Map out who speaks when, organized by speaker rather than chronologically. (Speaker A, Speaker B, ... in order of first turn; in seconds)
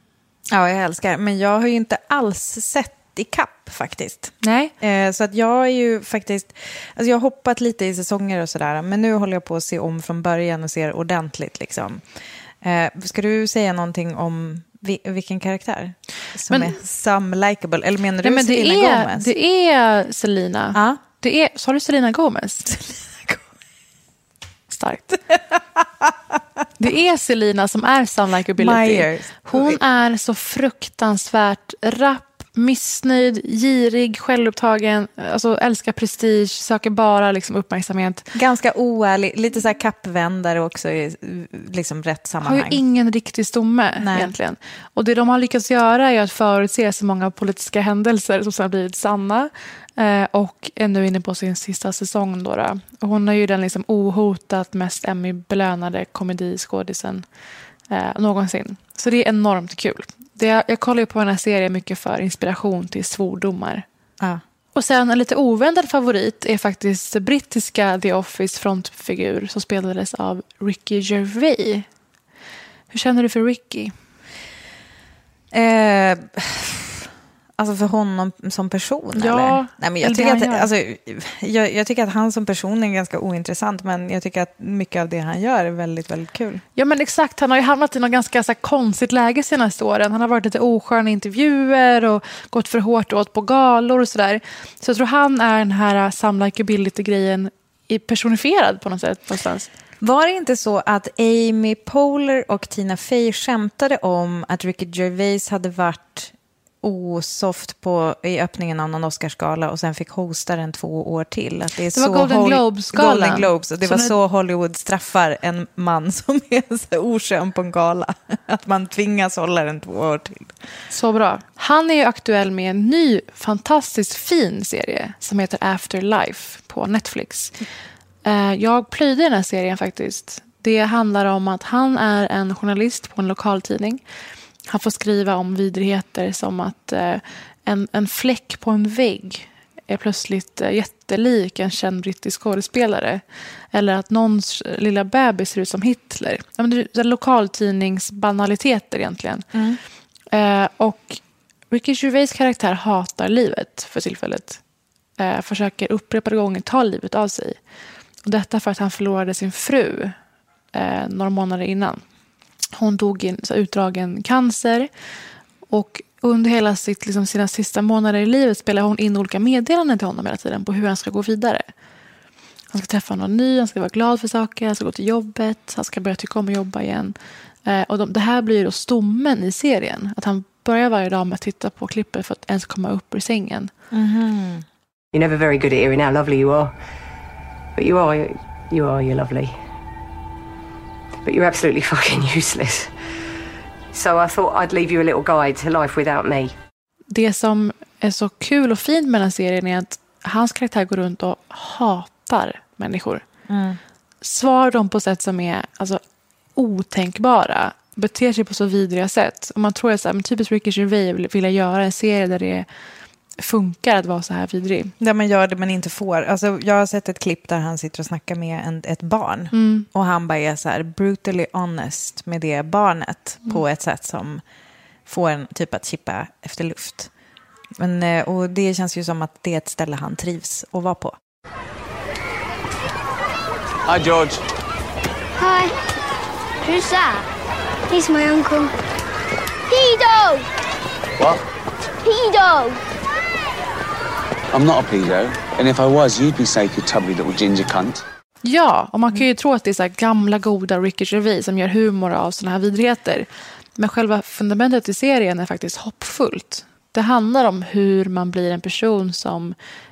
Speaker A: 0.5-12.0, 12.6-19.3, 20.7-21.0, 28.6-29.8, 38.3-42.8, 44.0-44.3, 75.5-86.6, 100.0-120.5, 149.5-149.8, 183.9-184.6, 203.5-203.8, 215.0-224.4, 225.1-227.1, 227.8-231.2
Speaker B: 4.4-4.7, 16.5-16.7, 18.2-22.8, 24.7-25.2, 26.8-38.3, 42.4-57.2, 57.9-63.9, 64.7-71.9, 72.9-73.9, 79.1-80.7, 86.8-99.7, 111.9-114.1, 120.9-127.6, 128.2-134.0, 134.7-143.2, 143.7-149.5, 150.3-154.6, 155.2-157.6, 158.2-160.1, 160.7-162.0, 162.8-164.9, 165.7-171.7, 172.7-177.1, 177.7-183.7, 197.1-203.2, 204.2-206.0, 206.6-212.7, 213.4-214.9, 219.5-219.9, 248.4-259.6
Speaker C: 185.1-186.7, 187.8-189.6, 191.2-192.9, 193.9-196.5
Speaker D: 233.9-234.4, 244.5-248.0
Speaker E: 235.4-235.7, 236.6-237.3, 237.9-238.7, 239.7-240.4, 242.0-242.8